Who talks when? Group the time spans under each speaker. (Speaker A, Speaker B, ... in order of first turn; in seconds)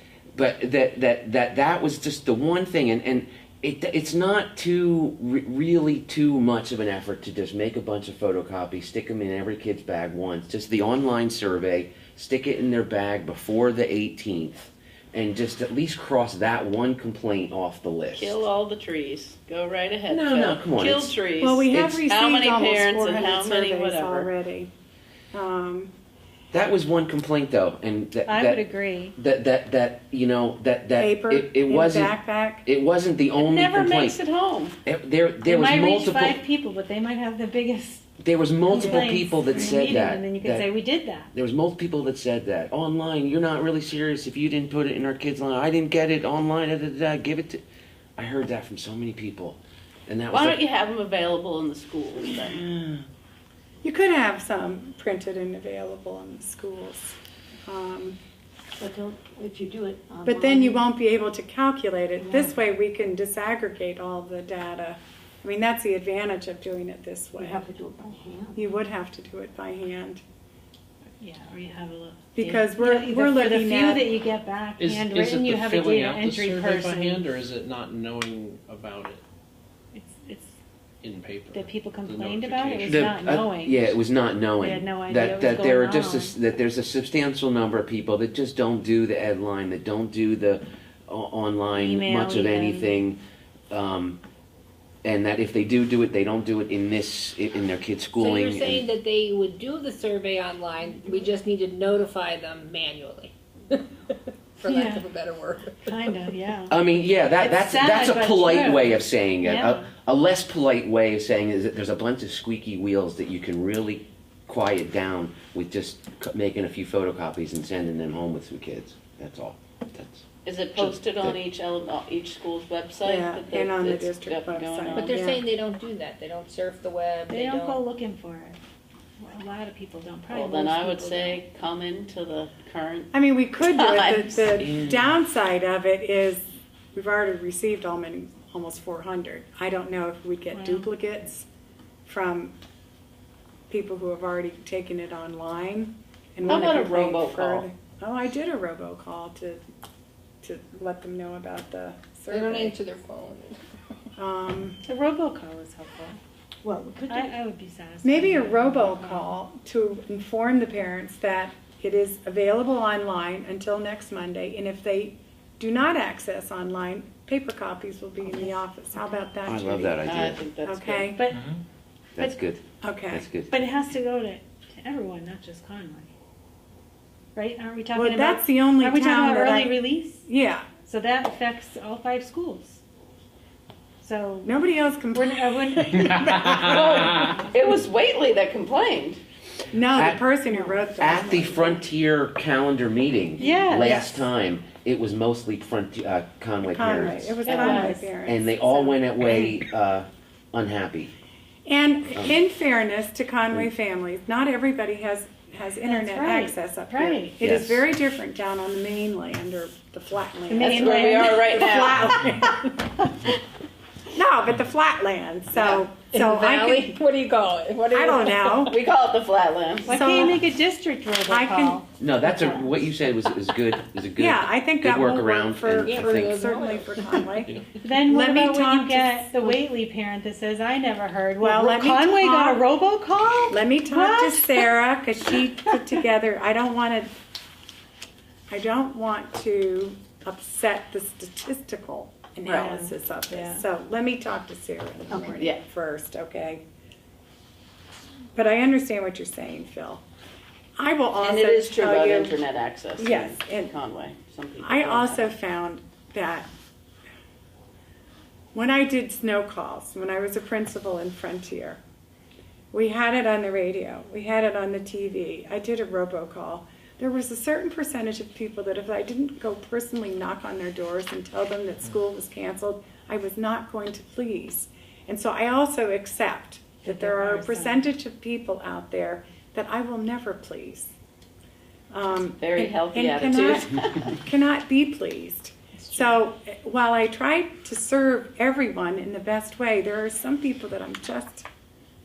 Speaker A: 0.4-18.4, 20.1-21.1, 21.7-22.0, 26.5-28.6, 29.2-34.2, 34.9-36.4, 38.2-40.7, 41.3-47.6, 48.2-50.6, 52.7-53.0, 82.9-93.2, 93.7-94.2, 95.0-98.9, 106.7-120.2, 120.8-121.4, 134.6-135.1, 169.5-170.4, 172.2-173.6, 189.9-190.2, 191.0-201.1, 207.4-207.8, 222.0-226.3
Speaker B: 18.1-24.3, 33.5-34.8, 50.3-52.6, 120.5-125.2, 130.3-134.5, 146.4-147.7, 170.1-171.1, 186.6-189.2, 197.5-198.1, 210.6-212.3, 218.7-220.3, 242.5-242.8, 251.2-255.3, 282.1-284.1
Speaker C: 21.4-24.7, 25.3-25.9, 31.0-32.7, 38.7-39.7, 53.8-58.2, 60.3-67.6, 68.5-70.2, 72.3-74.0, 123.0-125.4, 133.1-136.4, 136.9-141.5, 142.1-142.6, 143.7-149.6, 150.4-152.8, 154.2-154.8, 158.0-170.0, 170.6-171.3, 172.8-173.2, 177.9-180.7, 184.4-187.2, 189.7-191.8, 196.7-199.5, 201.7-212.6, 214.1-217.0, 217.9-218.8, 219.9-220.4, 221.2-221.8, 224.2-229.6, 231.4-232.7, 233.5-237.1, 238.5-246.6, 248.3-250.0, 250.8-252.4, 253.0-253.8, 254.6-256.5, 258.5-261.8, 262.7-280.9, 281.9-291.5
Speaker D: 28.3-29.1, 33.4-34.0, 35.4-41.3, 71.2-77.3, 79.9-80.6, 81.5-84.0, 84.6-86.3, 91.7-93.0, 104.7-105.0, 105.9-106.7, 107.4-109.9, 127.3-128.6, 129.2-131.4, 140.5-140.9, 154.9-156.2, 157.1-159.3, 171.2-171.5, 173.5-176.1, 177.3-180.3, 180.8-182.8, 184.0-184.5, 185.1-186.5, 187.1-187.5, 193.4-194.3, 205.8-207.3, 210.5-211.7, 219.9-222.9, 227.8-234.7, 242.7-243.6, 276.9-277.8, 285.8-286.2
Speaker E: 58.8-60.8, 62.2-62.5, 67.4-68.6, 156.6-157.3
Speaker F: 74.8-79.2, 81.0-83.0
Speaker G: 98.2-106.4, 125.0-127.8, 152.3-153.6, 215.6-218.8, 225.8-227.4